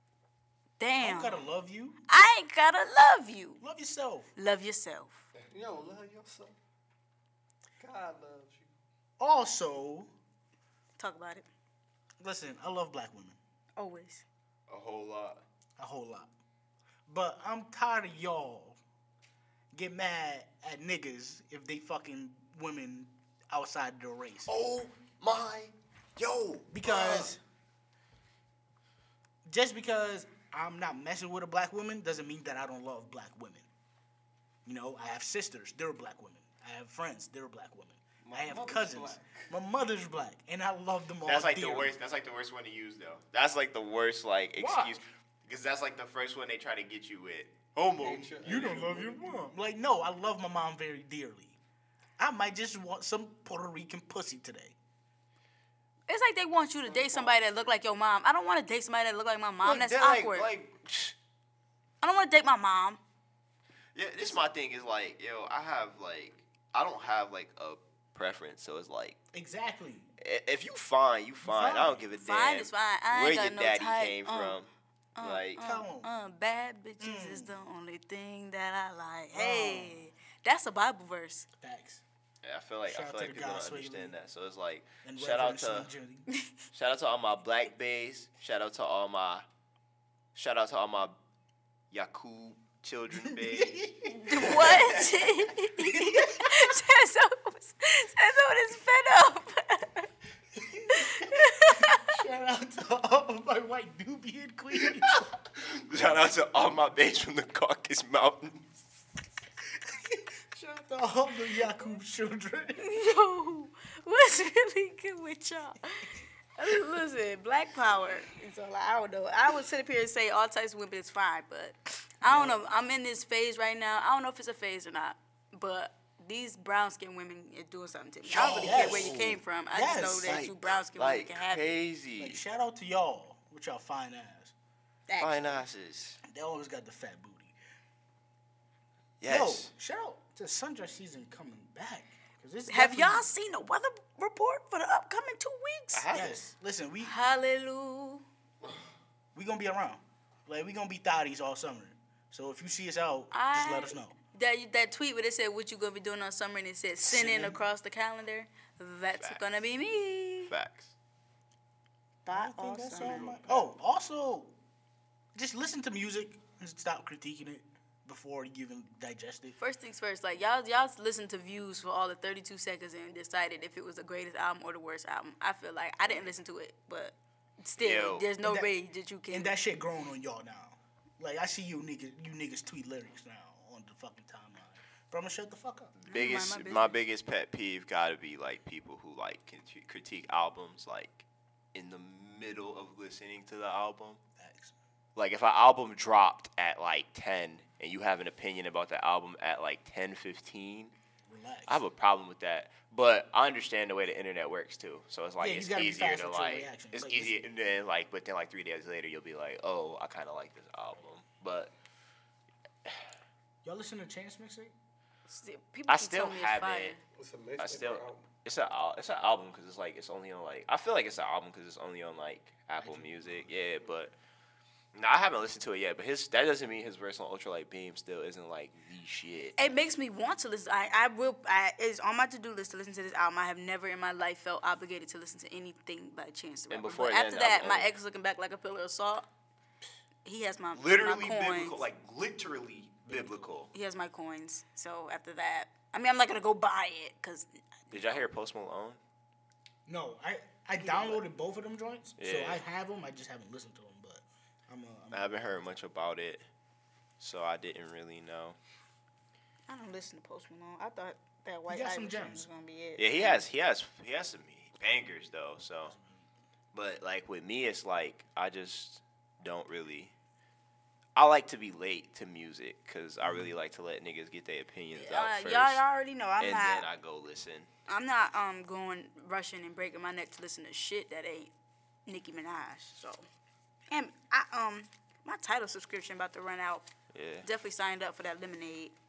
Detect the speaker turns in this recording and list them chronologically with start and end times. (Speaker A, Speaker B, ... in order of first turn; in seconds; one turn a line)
Speaker A: 0.8-1.4
Speaker B: 1.0-2.0
Speaker A: 2.1-3.6
Speaker B: 3.6-4.3
Speaker A: 4.4-5.3
Speaker C: 5.5-6.6
Speaker C: 7.8-8.7
Speaker B: 9.2-10.1
Speaker A: 11.0-11.5
Speaker B: 12.2-13.4
Speaker A: 13.8-14.2
Speaker D: 14.7-15.4
Speaker B: 15.8-16.3
Speaker B: 17.1-18.8
Speaker B: 19.7-24.5
Speaker D: 24.5-27.4
Speaker B: 26.7-27.4
Speaker B: 29.5-33.7
Speaker B: 34.6-42.0
Speaker C: 38.2-39.5
Speaker D: 41.2-48.8
Speaker B: 44.6-45.0
Speaker C: 48.0-49.5
Speaker B: 48.4-51.6
Speaker B: 52.2-54.8
Speaker A: 56.1-60.5
Speaker C: 57.1-57.4
Speaker D: 59.6-61.1
Speaker A: 62.0-63.0
Speaker D: 64.0-69.2
Speaker B: 69.3-70.1
Speaker D: 70.2-74.7
Speaker B: 71.4-72.0
Speaker A: 72.2-74.6
Speaker A: 75.2-81.5
Speaker D: 75.2-75.6
Speaker B: 75.6-76.1
Speaker B: 77.0-77.5
Speaker B: 79.3-80.0
Speaker B: 81.6-82.0
Speaker D: 82.4-85.9
Speaker B: 82.9-84.2
Speaker B: 85.0-86.3
Speaker D: 86.7-89.5
Speaker D: 90.3-91.2
Speaker D: 91.9-95.3
Speaker B: 93.2-95.0
Speaker A: 94.1-100.1
Speaker B: 95.8-96.4
Speaker B: 100.5-105.3
Speaker A: 100.9-102.1
Speaker D: 105.0-108.7
Speaker B: 109.8-112.9
Speaker A: 112.8-131.7
Speaker B: 122.2-122.6
Speaker D: 128.3-129.4
Speaker B: 128.4-129.2
Speaker B: 129.7-130.5
Speaker D: 130.2-132.4
Speaker B: 132.2-134.5
Speaker A: 135.1-135.6
Speaker D: 135.2-136.2
Speaker B: 136.2-137.6
Speaker D: 139.2-139.7
Speaker B: 139.2-143.3
Speaker A: 142.7-146.1
Speaker D: 145.9-146.4
Speaker B: 146.1-147.2
Speaker A: 147.0-148.2
Speaker B: 149.3-154.1
Speaker A: 153.3-160.5
Speaker B: 157.0-157.6
Speaker D: 159.1-159.4
Speaker D: 160.5-160.9
Speaker A: 162.2-163.3
Speaker B: 162.3-164.5
Speaker C: 163.0-163.7
Speaker B: 165.3-169.6
Speaker A: 169.6-179.5
Speaker D: 177.8-178.3
Speaker B: 178.4-178.7
Speaker B: 179.3-185.9
Speaker D: 186.0-194.2
Speaker A: 186.1-187.0
Speaker B: 194.4-194.7
Speaker D: 195.2-200.9
Speaker B: 201.3-201.8
Speaker D: 201.7-211.7
Speaker B: 205.4-207.4
Speaker B: 213.6-214.7
Speaker A: 215.3-217.0
Speaker D: 215.9-217.0
Speaker C: 217.1-218.3
Speaker D: 217.6-224.1
Speaker B: 222.8-223.9
Speaker D: 224.9-229.7
Speaker A: 229.6-239.2
Speaker D: 236.7-237.9
Speaker A: 240.2-241.8
Speaker D: 240.7-243.7
Speaker B: 243.1-243.5
Speaker A: 243.7-248.2
Speaker D: 247.9-249.0
Speaker B: 249.9-255.3
Speaker D: 250.9-251.2
Speaker D: 252.2-252.6
Speaker D: 255.1-256.4
Speaker D: 257.2-258.6
Speaker A: 259.7-263.4
Speaker B: 261.7-262.5
Speaker D: 263.0-266.0
Speaker B: 265.9-266.3
Speaker D: 266.7-270.1
Speaker D: 271.2-275.8
Speaker B: 273.2-273.5
Speaker A: 274.9-276.9
Speaker D: 276.4-277.7
Speaker A: 277.9-281.5
Speaker A: 282.1-283.3
Speaker A: 283.9-286.9
Speaker D: 287.1-287.5
Speaker A: 287.4-288.9